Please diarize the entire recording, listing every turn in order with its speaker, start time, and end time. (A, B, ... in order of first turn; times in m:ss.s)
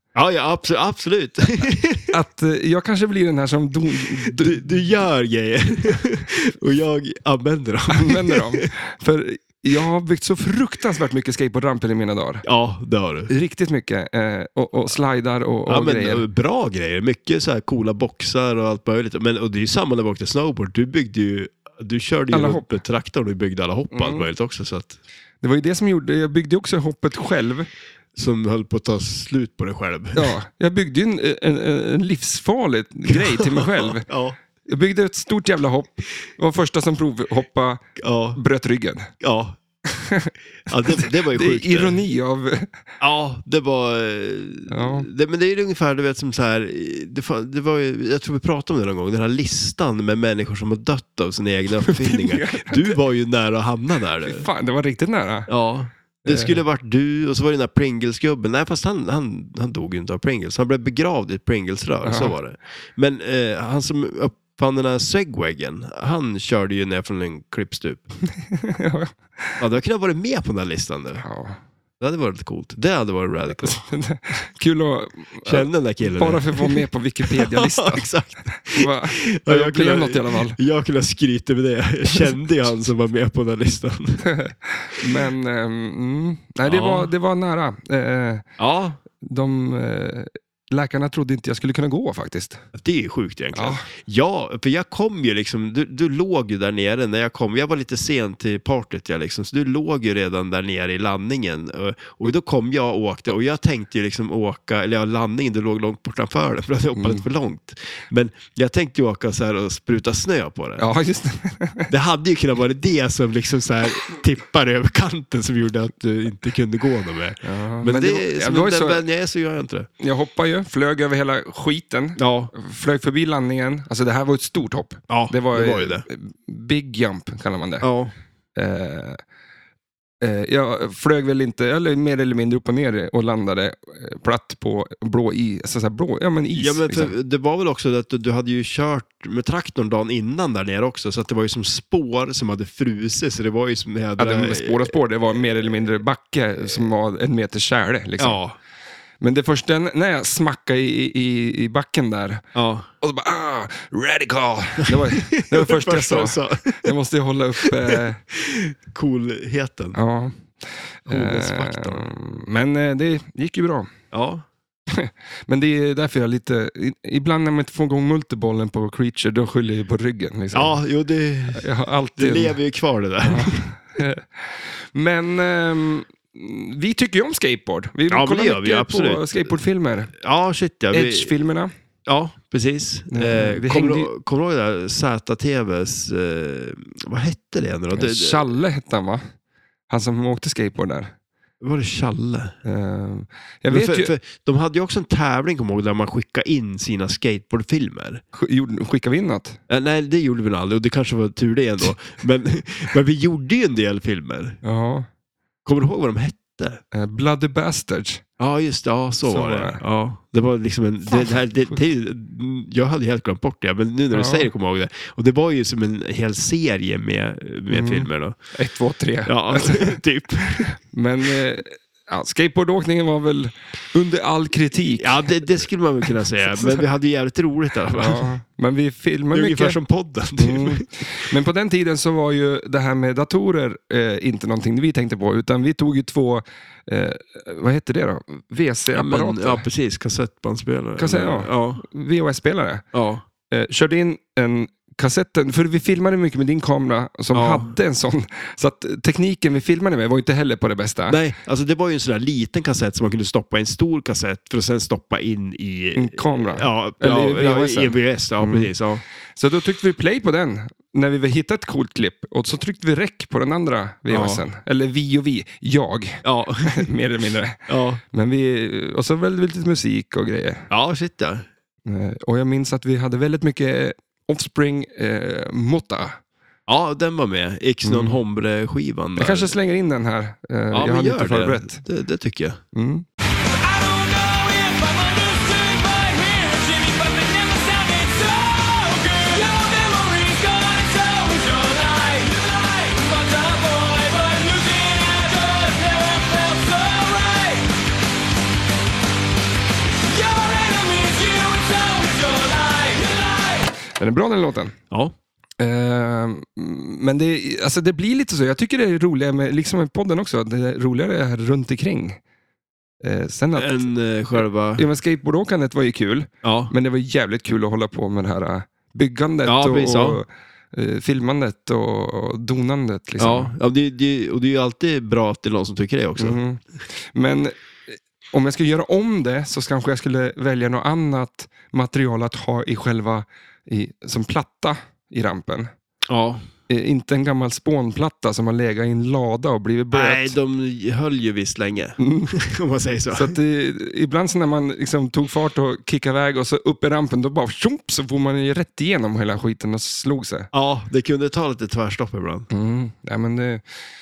0:00.1-0:02.1 A
0:02.1-0:04.7 B
0:04.2-0:08.7 A
0:07.9-0:12.4 B
0:12.4-0:13.3 A
0:13.3-0:16.2 B
0:15.7-0:25.0 A
0:22.3-0:22.7 B
0:23.9-0:24.3 B
0:25.4-0:27.7 B
0:28.1-0:30.3 A
0:30.1-0:34.0 B
0:33.1-0:34.4 A
0:34.6-0:39.1 B
0:38.0-0:38.4 A
0:39.2-0:39.6 A
0:39.9-0:42.8 B
0:40.6-0:42.0 A
0:43.0-0:54.4 A
0:44.7-0:45.1 B
0:51.8-0:53.0 B
0:54.2-0:55.5 B
0:55.5-1:08.0 A
0:56.2-0:56.6 B
1:02.0-1:02.4 B
1:08.4-1:09.6 B
1:09.6-1:11.2 A
1:11.2-1:11.6 B
1:12.0-1:13.8 A
1:13.5-1:20.6 B
1:15.4-1:24.3 A
1:24.2-1:28.4 B
1:26.6-1:27.1 A
1:28.6-1:29.0 A
1:29.2-1:32.6 B
1:32.7-1:50.9 A
1:33.5-1:33.8 B
1:46.9-1:47.2 B
1:50.8-1:51.9 B
1:51.9-1:59.9 A
1:57.4-1:59.0 B
2:00.0-2:07.8 B
2:02.2-2:02.5 A
2:05.1-2:06.0 A
2:07.8-2:08.1 A
2:08.6-2:09.2 B
2:10.2-2:17.1 B
2:16.5-2:25.0 A
2:24.2-2:28.4 B
2:28.2-2:28.6 A
2:29.2-2:32.4 B
2:32.5-2:32.9 A
2:33.0-2:38.2 B
2:34.8-2:36.9 A
2:37.6-2:40.0 A
2:39.9-2:43.9 B
2:41.1-2:42.1 A
2:44.1-2:44.4 A
2:44.9-2:50.8 B
2:50.5-2:53.7 A
2:51.5-2:52.6 B
2:53.2-3:00.1 B
2:58.1-2:59.5 A
3:00.2-3:01.3 A
3:00.9-3:01.7 B
3:02.1-3:08.5 A
3:03.1-3:04.1 B
3:07.9-3:09.2 B
3:09.9-3:11.1 B
3:11.6-3:12.6 A
3:12.6-3:14.1 B
3:13.7-3:18.2 A
3:18.3-3:19.6 B
3:19.7-3:24.6 A
3:24.6-3:25.1 B
3:25.6-3:26.8 A
3:26.9-3:28.2 B
3:28.4-3:38.4 A
3:29.2-3:29.8 B
3:31.1-3:31.8 B
3:34.1-3:34.5 B
3:37.7-3:40.0 B
3:39.2-3:40.8 A
3:40.7-3:45.4 B
3:45.0-3:48.3 A
3:46.4-3:46.8 B
3:47.9-3:49.8 B
3:49.3-3:51.0 A
3:50.4-3:59.6 B
3:58.9-4:01.8 A
4:01.0-4:02.8 B
4:02.9-4:03.2 A
4:03.5-4:11.2 B
4:07.3-4:07.7 A
4:11.1-4:19.0 A
4:15.9-4:18.7 B
4:19.3-4:30.7 B
4:24.1-4:24.4 A
4:26.2-4:26.9 A
4:27.7-4:28.0 A
4:30.7-4:31.5 A
4:31.8-4:36.2 B
4:36.7-4:39.5 A
4:37.8-4:38.2 B
4:39.2-4:41.8 B
4:40.7-4:42.6 A
4:42.7-4:43.0 B
4:43.4-4:57.7 C
5:00.0-5:03.7 C
5:03.9-5:04.7 B
5:05.6-5:12.2 B
5:13.0-5:23.5 B
5:13.5-5:14.8 A
5:16.4-5:16.7 A
5:19.4-5:20.2 A
5:23.2-5:26.4 A
5:26.2-5:35.7 B
5:36.1-5:36.5 A
5:36.7-5:40.3 B
5:39.9-5:43.4 A
5:42.0-5:42.3 B
5:43.1-5:50.5 B
5:50.5-5:52.5 A
5:52.5-5:53.6 B